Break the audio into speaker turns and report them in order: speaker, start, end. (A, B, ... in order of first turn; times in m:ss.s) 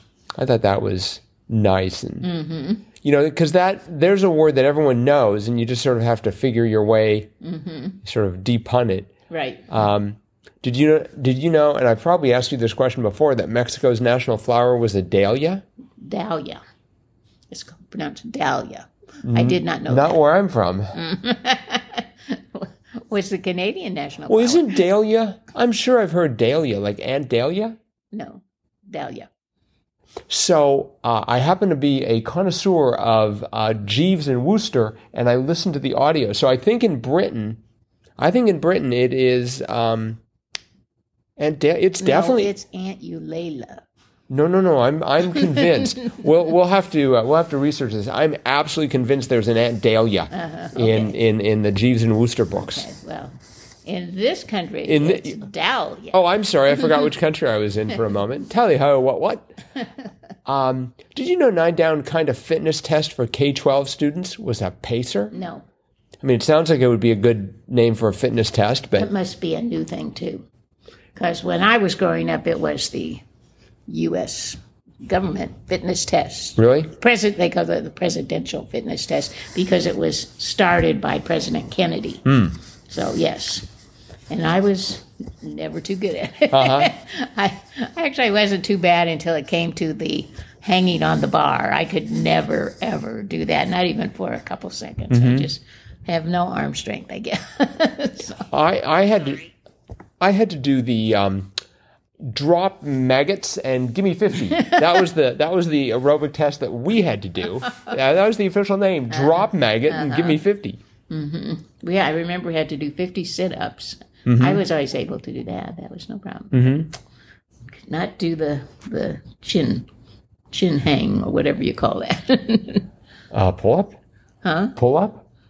0:00.4-0:02.3 A
0:02.2-0:02.8 B
0:03.0-0:07.3 A
0:07.4-0:08.0 B
0:08.0-0:09.1 A
0:09.3-0:09.7 B
0:09.7-0:15.6 A
0:16.0-0:16.6 B
0:17.5-0:20.2 B
0:19.2-0:21.0 A
0:20.9-0:24.8 B
0:24.3-0:27.8 A
0:28.1-0:29.3 B
0:30.3-0:37.6 A
0:38.2-0:40.2 A
0:41.4-0:42.5 A
0:42.0-0:43.8 B
0:44.3-0:52.8 A
0:45.4-0:45.9 B
0:50.3-0:51.2 B
0:52.6-0:56.2 B
0:54.9-0:55.4 A
0:56.1-0:59.5 A
0:56.7-0:57.0 B
1:00.4-1:05.3 A
1:05.3-1:05.6 B
1:06.2-1:09.1 A
1:09.0-1:10.4 B
1:11.1-1:13.2 B
1:13.9-1:22.2 B
1:16.6-1:16.9 A
1:22.2-1:22.6 A
1:22.9-1:23.7 B
1:24.3-1:38.5 B
1:26.5-1:26.9 A
1:35.1-1:35.5 A
1:38.5-1:39.5 A
1:40.2-1:41.5 A
1:42.2-1:50.8 A
1:44.4-1:45.0 B
1:49.1-1:50.4 B
1:51.1-1:56.8 B
1:54.2-1:54.6 A
1:56.5-1:56.9 A
1:57.8-1:59.9 B
2:00.5-2:02.8 B
2:03.3-2:04.0 A
2:04.4-2:04.8 B
2:04.8-2:05.2 A